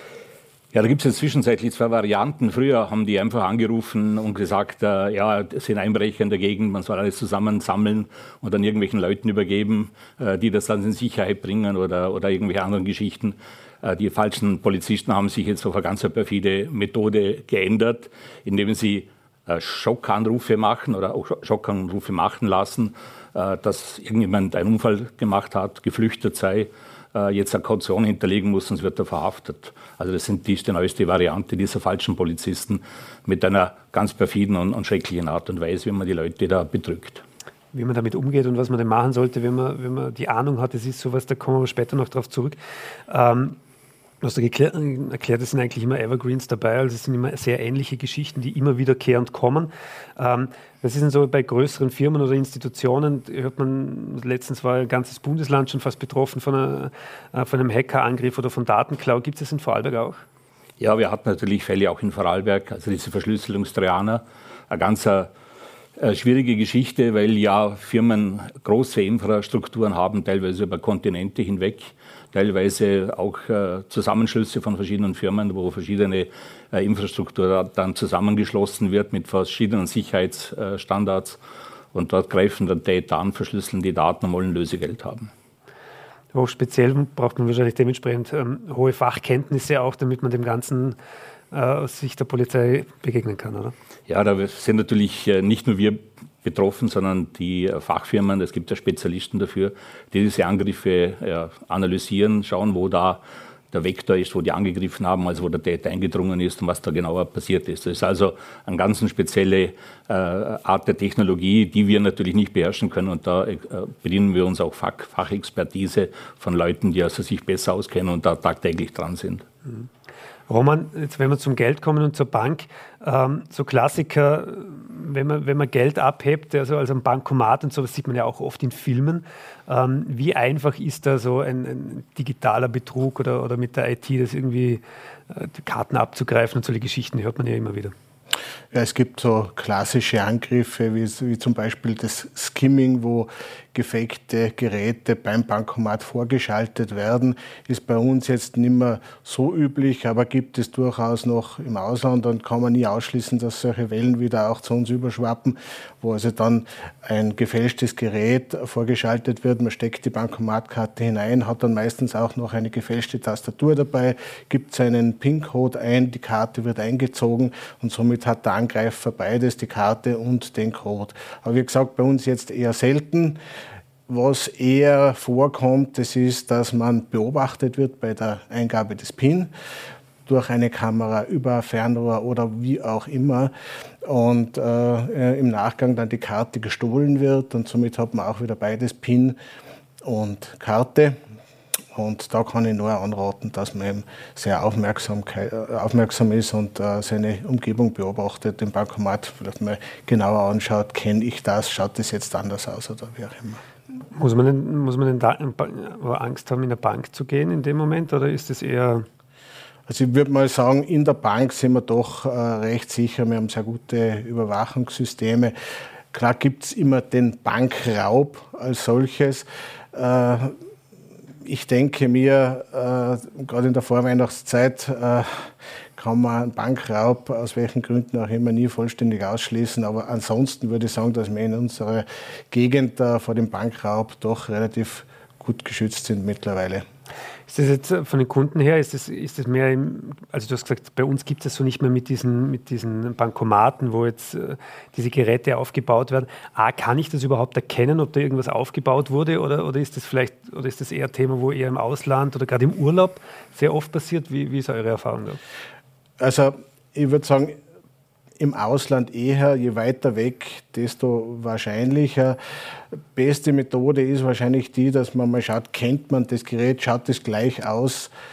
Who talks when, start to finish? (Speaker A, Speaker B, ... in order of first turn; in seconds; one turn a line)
Speaker A: 0.7-37.2
Speaker B: 37.7-42.6
Speaker B: 43.1-43.6
Speaker B: 44.2-60.2
Speaker A: 60.8-65.3
Speaker A: 66.0-81.4
Speaker A: 81.9-85.3
Speaker B: 86.3-91.0
Speaker B: 91.5-93.7
Speaker A: 94.1-103.2
Speaker A: 103.7-119.5
Speaker B: 120.5-137.9
Speaker C: 138.7-173.4
Speaker C: 174.1-179.5
Speaker C: 180.3-183.5
Speaker C: 184.1-189.4
Speaker C: 190.0-191.2
Speaker C: 191.9-203.6
Speaker B: 204.2-209.1
Speaker C: 209.9-215.6
Speaker C: 216.1-220.6
Speaker C: 221.4-236.8
Speaker B: 237.5-255.4
Speaker C: 256.2-257.6
Speaker C: 258.4-262.4
Speaker C: 263.0-268.1